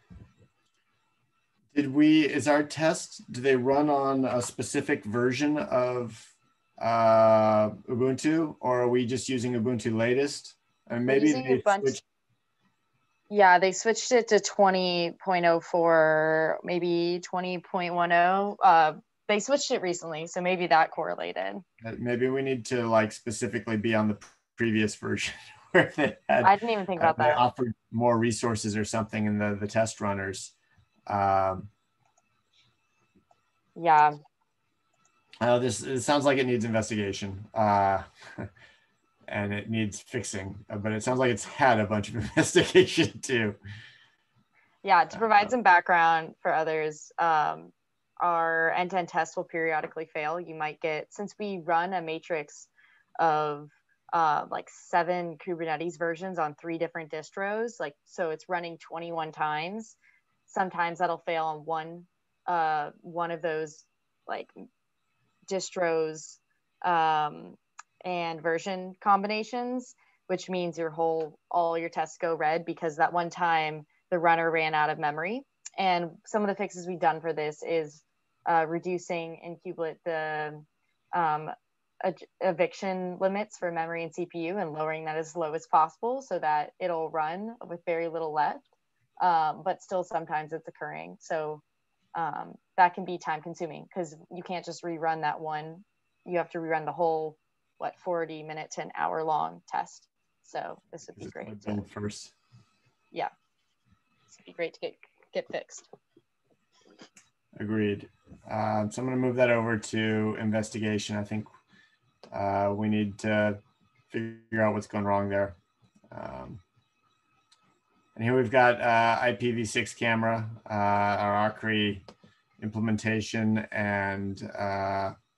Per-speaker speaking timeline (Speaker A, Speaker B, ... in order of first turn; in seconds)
Speaker A: 1.7-12.0, 21.8-30.5, 31.1-31.7, 35.4-38.5, 39.3-43.6, 101.2-102.3, 107.5-111.5, 112.3-115.5, 116.1-116.6, 118.2-122.0, 122.6-125.2
Speaker B: 11.1-12.0, 13.3-21.6, 26.4-27.4, 33.8-34.1, 44.8-60.0, 60.5-64.5, 65.5-88.6, 89.2-91.6, 92.1-101.8, 104.3-105.9